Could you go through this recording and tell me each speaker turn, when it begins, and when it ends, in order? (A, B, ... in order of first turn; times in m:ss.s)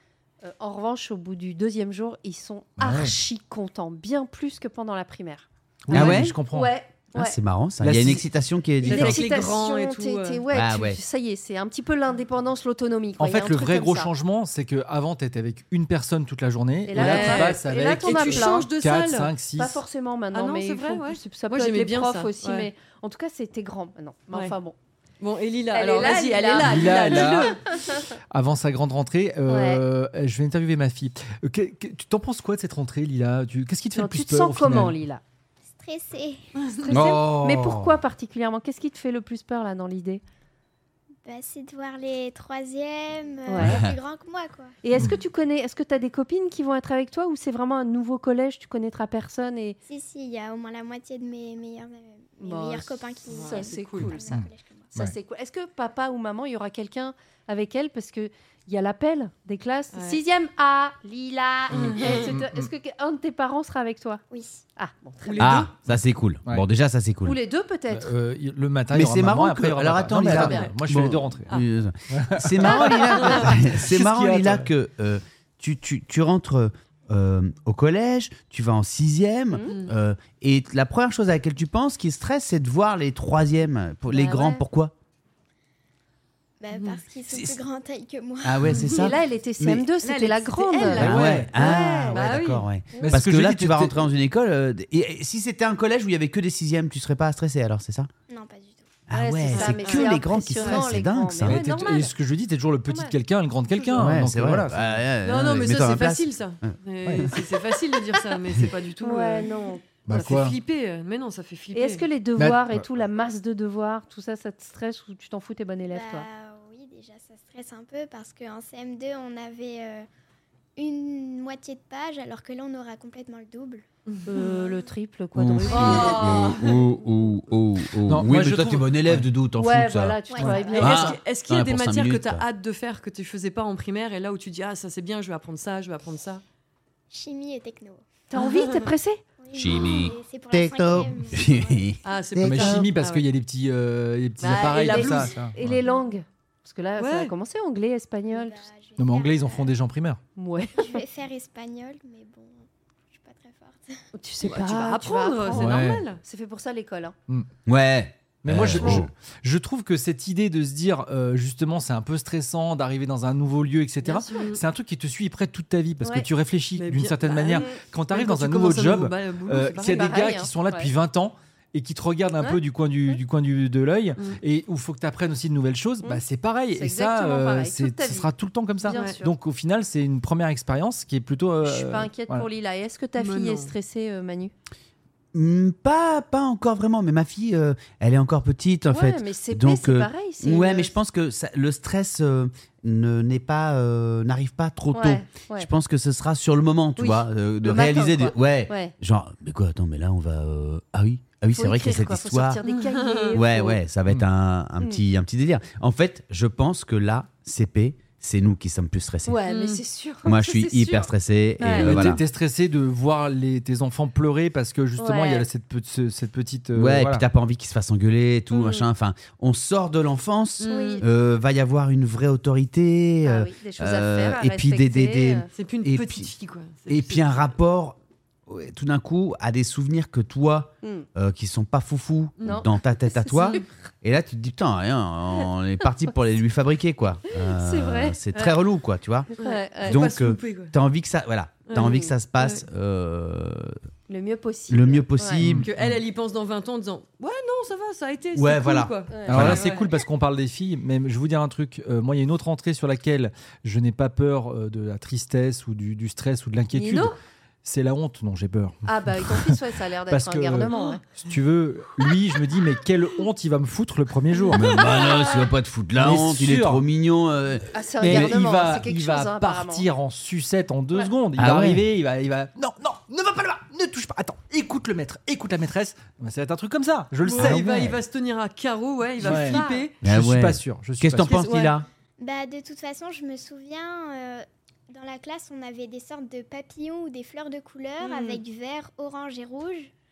0:00.4-0:07.4 A
0:02.8-0:03.1 B
0:05.9-0:06.7 B
0:05.9-0:06.4 C
0:07.1-0:09.6 C
0:07.8-0:08.2 B
0:08.8-0:14.1 A
0:08.8-0:10.4 D
0:10.5-0:11.0 C
0:13.2-0:19.8 B
0:16.8-0:18.7 A
0:16.9-0:19.3 D
0:19.6-0:24.8 A
0:20.3-0:22.7 D
0:24.3-0:24.5 D
0:25.2-0:27.6 D
0:25.7-0:28.0 A
0:26.6-0:27.6 B
0:28.3-0:35.0 B
0:29.5-0:29.8 A
0:33.9-0:35.2 A
0:35.7-0:36.4 E
0:36.8-0:40.2 A
0:36.9-0:38.0 C
0:41.2-0:44.7 E
0:43.5-0:43.8 A
0:43.6-0:43.9 C
0:44.8-0:49.8 A
0:49.8-0:54.9 E
0:52.4-1:04.2 A
0:53.3-0:54.2 D
0:54.3-0:55.1 B
0:59.9-1:00.2 D
1:01.7-1:02.3 D
1:01.7-1:02.7 B
1:04.3-1:04.6 E
1:04.8-1:05.6 A
1:05.2-1:05.7 D
1:05.4-1:07.4 C
1:07.2-1:08.1 A
1:07.9-1:11.5 B
1:08.9-1:24.9 C
1:10.4-1:10.8 D
1:12.1-1:14.7 B
1:12.7-1:13.5 D
1:12.7-1:13.4 A
1:24.1-1:24.6 A
1:26.6-1:29.1 E
1:26.7-1:27.0 D
1:27.3-1:27.6 C
1:28.4-1:29.9 C
1:28.7-1:29.1 D
1:28.9-1:32.3 A
1:30.0-1:33.1 D
1:30.9-1:38.1 C
1:31.0-1:31.5 B
1:33.0-1:34.0 B
1:38.3-1:38.9 E
1:39.1-1:41.6 C
1:39.1-1:42.1 A
1:39.5-1:40.9 D
1:41.4-1:45.0 B
1:42.9-1:43.2 A
1:43.7-1:44.0 A
1:44.0-1:47.3 C
1:45.2-1:52.0 D
1:47.0-1:47.3 B
1:49.0-1:49.8 A
1:50.1-1:50.6 B
1:51.7-1:56.3 A
1:52.4-1:52.8 B
1:55.9-2:00.0 E
2:00.8-2:04.9 E
2:04.1-2:04.3 D
2:04.2-2:06.5 A
2:05.3-2:10.2 C
2:05.7-2:06.9 D
2:05.8-2:06.1 E
2:08.1-2:09.3 B
2:09.6-2:11.2 A
2:10.3-2:10.9 E
2:10.4-2:16.4 D
2:10.8-2:12.4 C
2:17.1-2:18.0 E
2:18.3-2:19.2 A
2:19.4-2:22.2 E
2:19.5-2:22.9 C
2:22.0-2:23.3 D
2:22.4-2:25.8 B
2:24.4-2:25.4 D
2:24.5-2:28.6 A
2:27.0-2:27.3 D
2:28.3-2:29.8 E
2:29.0-2:30.2 B
2:30.4-2:31.0 A
2:30.8-2:34.0 E
2:34.1-2:37.1 A
2:34.4-2:36.2 D
2:35.5-2:36.0 B
2:37.6-2:39.1 C
2:38.4-3:02.5 B
2:44.0-2:44.6 D
2:46.0-2:46.3 A
2:46.8-2:50.3 D
2:47.5-2:47.8 A
2:49.8-2:50.9 A
2:52.4-2:53.2 A
2:56.0-2:59.3 A
2:58.9-2:59.2 D
3:01.6-3:04.5 A
3:03.2-3:03.7 D
3:05.3-3:22.6 C
3:08.9-3:10.9 A
3:14.9-3:15.7 A
3:17.0-3:18.9 A
3:21.5-3:23.8 A
3:22.6-3:23.4 D
3:23.3-3:29.4 C
3:29.3-3:32.1 A
3:29.5-3:29.8 D
3:30.2-3:32.2 C
3:31.6-3:37.2 B
3:35.0-3:35.5 A
3:36.7-3:46.3 C
3:38.5-3:38.8 A
3:40.6-3:41.0 D
3:40.7-3:41.0 A
3:43.2-3:45.5 A
3:45.5-3:47.6 D
3:46.9-3:59.3 C
3:50.8-3:51.1 A
3:52.4-3:52.6 D
3:52.4-3:53.7 A
3:57.3-3:58.2 A
3:58.3-3:58.6 D
3:59.3-4:00.7 D
3:59.4-4:00.0 A
3:59.8-4:03.8 C
4:01.7-4:02.6 D
4:01.7-4:02.1 A
4:04.1-4:05.4 A
4:04.7-4:05.7 C
4:05.6-4:10.0 D
4:08.3-4:09.6 C
4:09.1-4:09.5 A
4:09.3-4:19.6 B
4:16.7-4:17.1 A
4:18.9-4:21.0 A
4:20.1-4:24.8 B
4:24.5-4:28.4 C
4:25.9-4:26.8 B
4:27.7-4:29.8 A
4:28.0-4:37.6 B
4:31.4-4:31.9 C
4:37.2-4:40.0 D
4:37.3-4:38.0 C
4:39.2-4:41.4 B
4:39.2-4:39.9 A
4:40.0-4:41.8 C
4:41.3-4:41.8 D
4:42.2-4:49.9 E
4:48.1-4:48.4 A